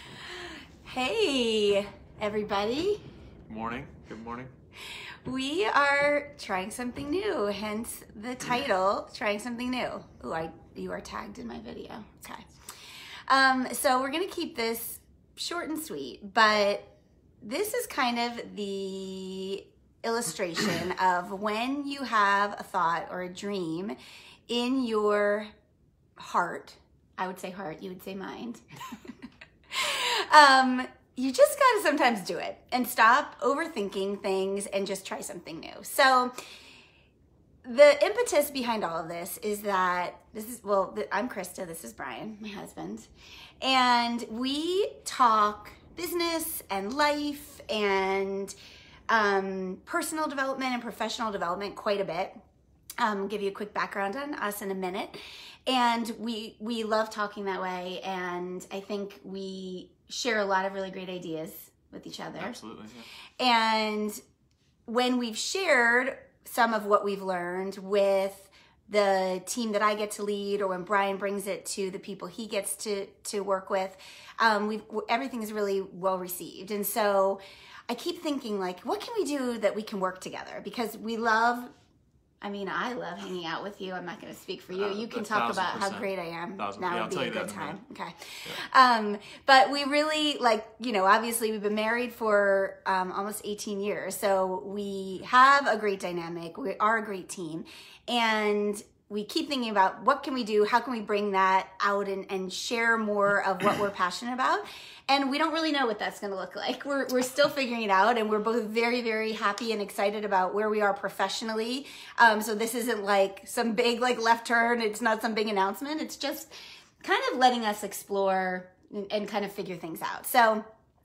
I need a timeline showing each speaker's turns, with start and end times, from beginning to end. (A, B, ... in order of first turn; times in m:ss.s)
0:00.2-0:03.0 A
0:03.5-0:04.5 B
0:05.2-0:12.5 A
0:13.3-0:24.0 A
0:24.5-0:25.5 A
0:26.2-0:29.1 A
0:29.7-0:36.3 A
0:37.6-0:43.1 A
0:43.6-0:48.6 A
0:49.1-0:52.4 A
0:53.0-1:02.6 A
1:02.4-1:03.1 B
1:03.4-1:04.2 A
1:04.9-1:21.7 A
1:22.4-1:56.5 A
1:24.7-1:27.8 B
1:57.0-2:00.6 A